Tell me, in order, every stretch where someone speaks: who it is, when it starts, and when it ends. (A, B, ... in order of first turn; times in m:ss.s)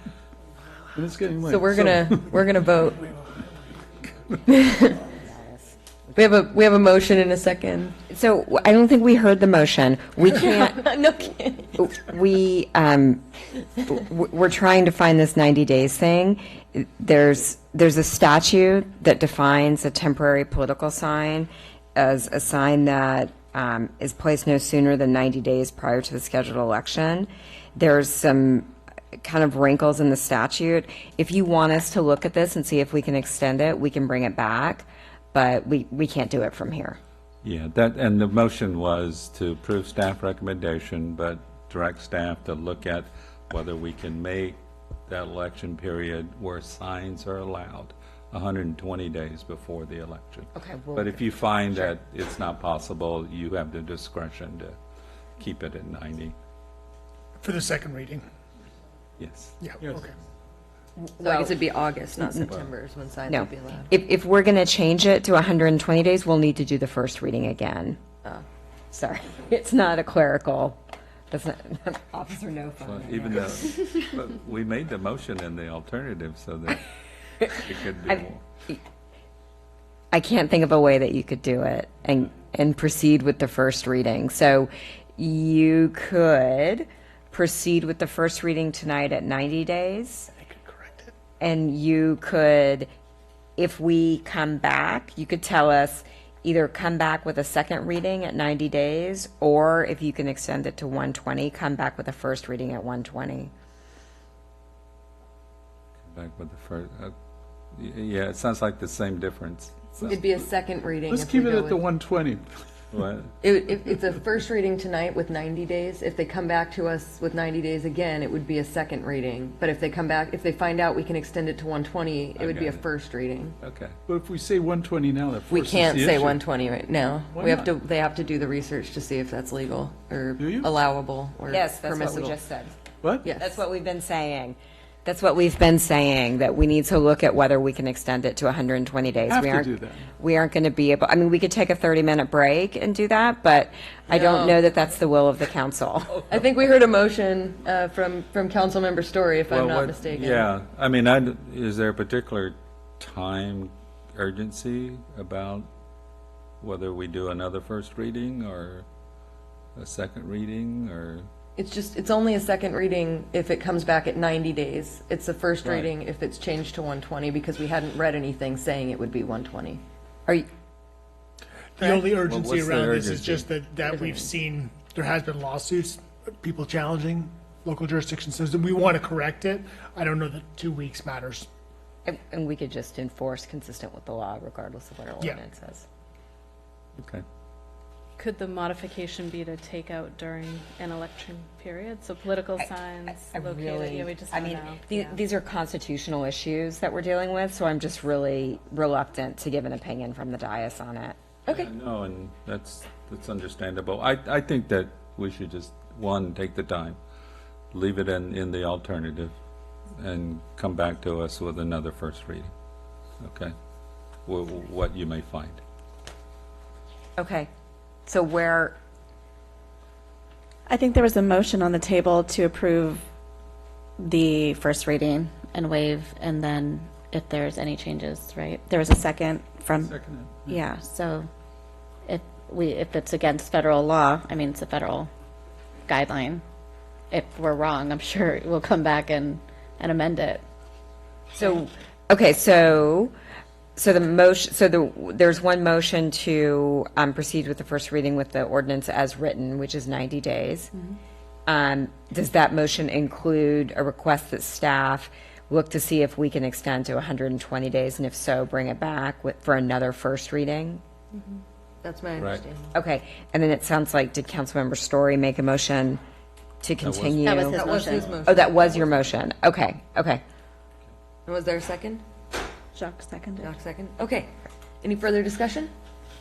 0:00.9-0:02.3 A
0:01.4-0:03.1 B
0:05.0-0:05.7 C
0:06.2-0:08.0 B
0:08.1-0:10.8 C
0:10.3-0:11.8 B
0:11.8-0:13.2 C
0:13.8-0:28.7 C
0:29.2-0:37.0 C
0:37.4-0:54.8 D
0:50.5-0:51.9 C
0:55.4-0:56.3 D
0:57.4-0:58.2 E
0:59.2-0:59.6 D
0:59.6-1:00.1 E
1:01.0-1:01.6 C
1:01.2-1:03.9 B
1:02.2-1:02.5 C
1:03.3-1:08.0 C
1:08.9-1:10.8 C
1:11.3-1:13.9 C
1:12.8-1:16.8 D
1:17.5-1:18.4 D
1:18.1-1:18.7 C
1:20.1-1:30.3 C
1:30.4-1:31.1 E
1:31.4-1:32.9 C
1:33.6-1:43.5 C
1:46.0-1:47.1 D
1:47.7-1:50.2 D
1:50.0-1:51.8 B
1:51.1-1:52.6 A
1:52.9-1:53.3 D
1:53.4-2:03.6 B
2:02.4-2:02.8 D
2:03.6-2:04.0 D
2:04.1-2:06.4 A
2:05.5-2:12.4 B
2:07.3-2:07.8 A
2:10.4-2:10.7 A
2:11.5-2:12.8 C
2:13.0-2:13.3 A
2:13.2-2:13.6 B
2:13.4-2:26.2 C
2:19.2-2:20.1 A
2:24.1-2:24.6 B
2:26.3-2:30.5 B
2:29.5-2:35.7 D
2:36.6-2:38.8 D
2:39.8-2:41.3 D
2:41.6-2:49.8 B
2:45.6-2:45.9 D
2:51.8-3:01.5 E
2:51.8-2:52.1 B
2:52.2-2:53.5 D
2:53.8-2:54.3 B
3:02.0-3:05.8 C
3:07.0-3:07.2 D
3:08.2-3:15.2 F
3:13.1-3:21.7 C
3:21.5-3:27.0 D
3:27.7-3:29.3 D
3:30.0-3:32.5 D
3:33.2-3:33.5 D
3:34.2-3:35.6 D
3:37.2-3:37.5 C
3:38.0-3:38.8 C
3:40.7-3:43.0 G
3:44.0-3:49.9 G
3:49.7-3:50.6 A
3:50.5-3:51.3 G
3:52.1-3:55.1 G
3:55.9-3:56.4 G
3:57.1-4:00.4 G
4:01.3-4:03.1 C
4:03.8-4:10.7 C
4:11.5-4:20.8 C
4:21.1-4:21.4 F
4:21.8-4:22.7 B
4:22.2-4:22.4 D
4:22.7-4:26.0 C
4:26.6-4:27.7 C
4:26.8-4:27.3 D
4:27.2-4:28.2 G
4:27.4-4:28.8 B
4:27.9-4:28.9 D
4:28.2-4:30.2 C
4:31.2-4:32.0 B
4:32.7-4:33.5 G
4:33.4-4:34.3 B
4:34.8-4:35.7 B